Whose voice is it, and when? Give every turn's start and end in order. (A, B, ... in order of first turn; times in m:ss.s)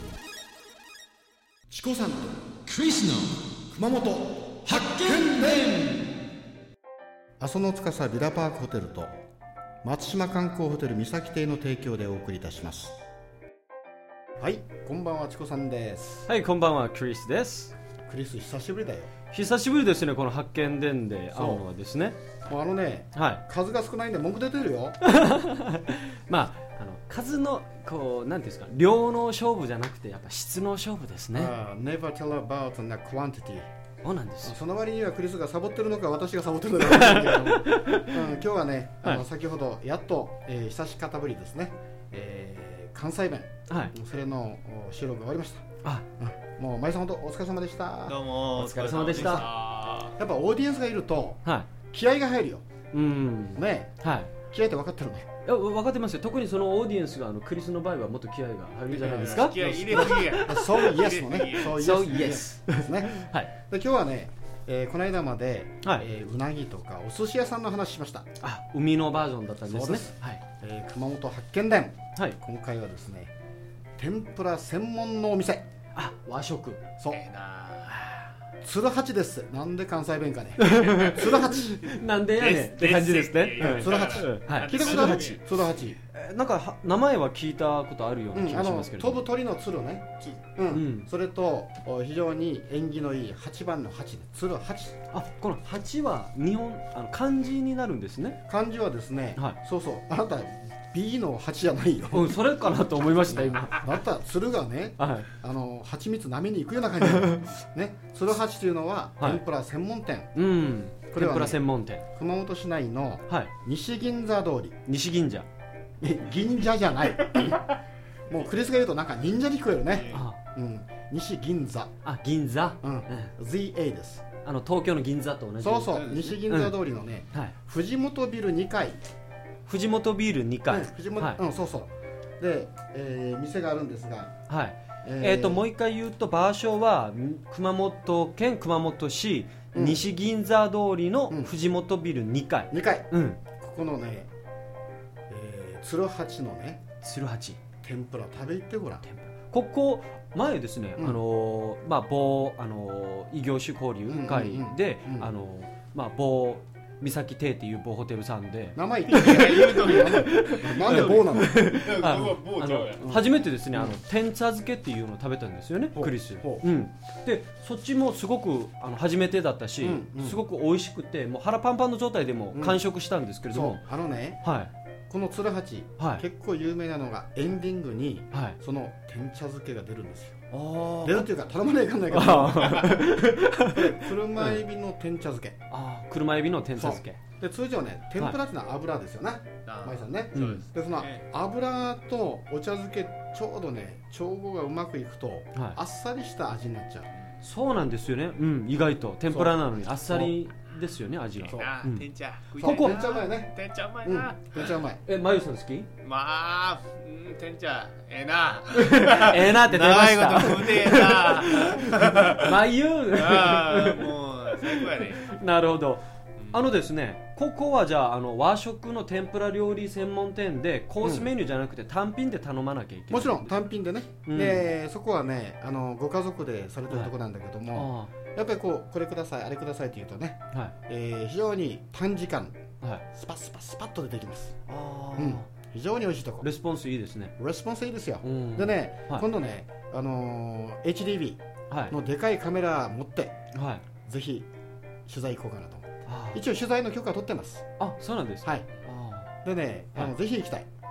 0:01.7-0:02.6 A
0:02.7-0:03.4 B
0:03.7-0:06.0 A
0:04.7-0:05.7 B
0:07.4-0:09.2 A
0:09.8-0:13.0 A
0:14.4-0:16.3 A
0:16.3-0:17.7 B
0:18.1-0:19.1 A
0:19.3-0:22.2 B
0:21.3-0:21.7 A
0:22.5-0:25.0 A
0:23.1-0:23.4 B
0:25.0-0:31.6 B
0:31.4-0:33.7 A
0:34.0-0:34.6 B
0:34.4-0:45.6 A
0:36.8-0:38.3 B
0:43.7-0:43.9 B
0:46.2-0:48.2 A
0:48.1-0:50.2 C
0:48.6-0:49.5 B
0:49.1-0:49.5 A
0:50.2-0:52.7 A
0:51.4-0:51.7 B
0:52.9-0:54.3 B
0:53.6-0:55.3 A
0:55.4-1:00.9 B
0:58.9-1:01.8 C
0:59.0-1:08.3 A
1:01.6-1:03.5 B
1:08.4-1:10.4 B
1:09.7-1:13.3 A
1:14.0-1:15.7 A
1:16.0-1:16.8 B
1:17.1-1:18.3 C
1:18.6-1:21.8 A
1:20.6-1:25.4 B
1:22.4-1:25.4 C
1:23.6-1:26.0 A
1:26.1-1:29.2 B
1:28.3-1:35.0 A
1:30.7-1:31.1 B
1:35.1-1:38.4 B
1:38.5-1:42.4 A
1:42.1-1:43.9 B
1:43.5-1:50.3 A
1:45.0-1:45.3 B
1:47.1-1:47.5 B
1:50.4-1:52.0 B
1:51.1-1:54.8 A
1:54.9-1:55.5 B
1:56.0-1:57.8 A
1:58.3-2:01.9 A
2:00.1-2:00.4 B
2:02.0-2:03.3 B
2:02.8-2:04.2 A
2:04.4-2:06.8 B
2:05.6-2:09.0 A
2:06.0-2:06.3 C
2:09.7-2:11.4 B
2:10.7-2:14.4 A
2:14.5-2:23.4 B
2:15.0-2:15.6 A
2:19.7-2:20.1 A
2:22.7-2:24.3 A
2:25.3-2:26.8 A
2:27.0-2:27.6 B
2:27.8-2:29.0 A
2:29.0-2:53.9 B
2:34.1-2:35.3 A
2:38.8-2:41.6 A
2:39.1-2:43.2 C
2:43.0-2:44.0 A
2:46.0-2:46.7 A
2:49.8-2:50.4 A
2:52.5-2:52.8 A
2:53.5-2:54.4 A
2:54.4-2:54.7 B
2:55.1-3:00.5 A
2:58.3-2:58.6 B
3:00.5-3:01.3 B
3:01.0-3:03.0 A
3:02.1-3:04.6 B
3:03.6-3:05.6 A
3:05.7-3:07.2 B
3:06.8-3:17.1 A
3:09.7-3:11.2 C
3:10.4-3:10.6 B
3:17.4-3:23.0 B
3:19.3-3:20.4 A
3:21.4-3:24.8 C
3:22.6-3:25.0 A
3:25.0-3:25.9 B
3:26.0-3:32.6 C
3:28.8-3:34.1 B
3:33.1-3:35.3 C
3:34.7-3:43.6 B
3:41.0-3:41.3 A
3:43.1-3:52.6 A
3:44.3-3:44.7 B
3:47.7-3:48.1 B
3:53.1-3:54.6 A
3:54.7-3:55.5 B
3:55.2-3:56.5 A
3:56.4-3:57.3 B
3:57.4-4:03.4 A
3:58.2-3:59.3 B
4:01.7-4:02.0 B
4:03.5-4:03.8 B
4:04.0-4:04.5 A
4:05.1-4:07.7 A
4:06.1-4:06.4 B
4:07.8-4:09.3 B
4:09.4-4:10.7 A